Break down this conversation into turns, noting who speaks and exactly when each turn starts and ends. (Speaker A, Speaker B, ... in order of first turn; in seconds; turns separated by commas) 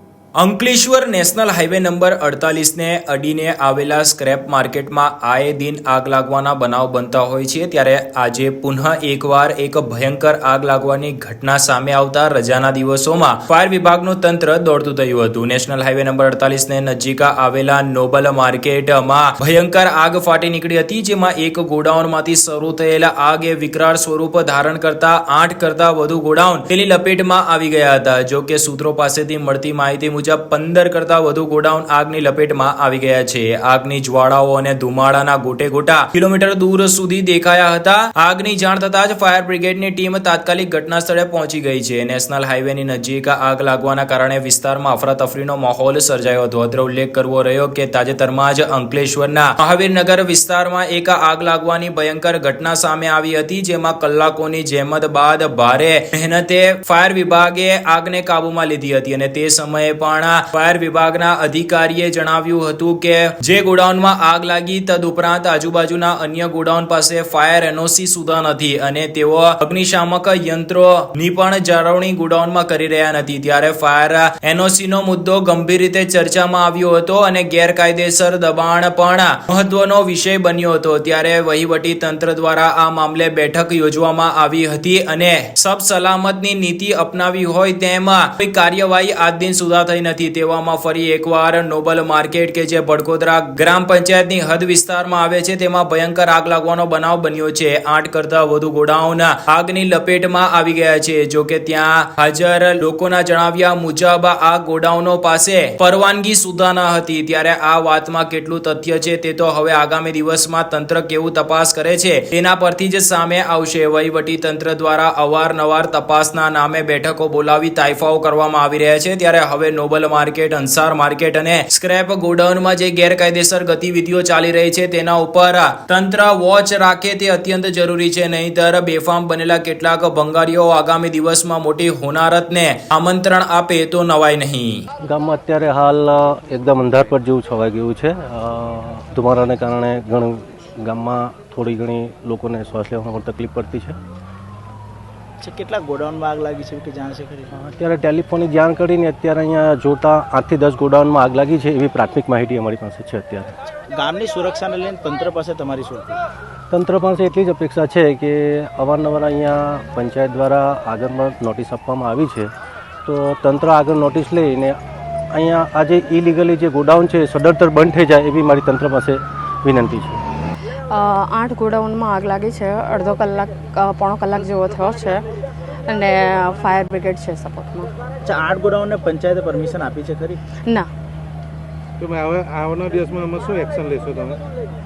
Speaker A: 0.4-134.8, Speaker B: 135.1-144.0, Speaker C: 145.4-147.5, Speaker B: 147.5-153.5, Speaker C: 153.9-156.2, Speaker B: 156.7-162.5, Speaker B: 163.1-164.8, Speaker B: 165.3-170.2, Speaker D: 170.9-175.2, Speaker D: 175.9-177.9, Speaker C: 178.2-180.4, Speaker E: 182.0-184.4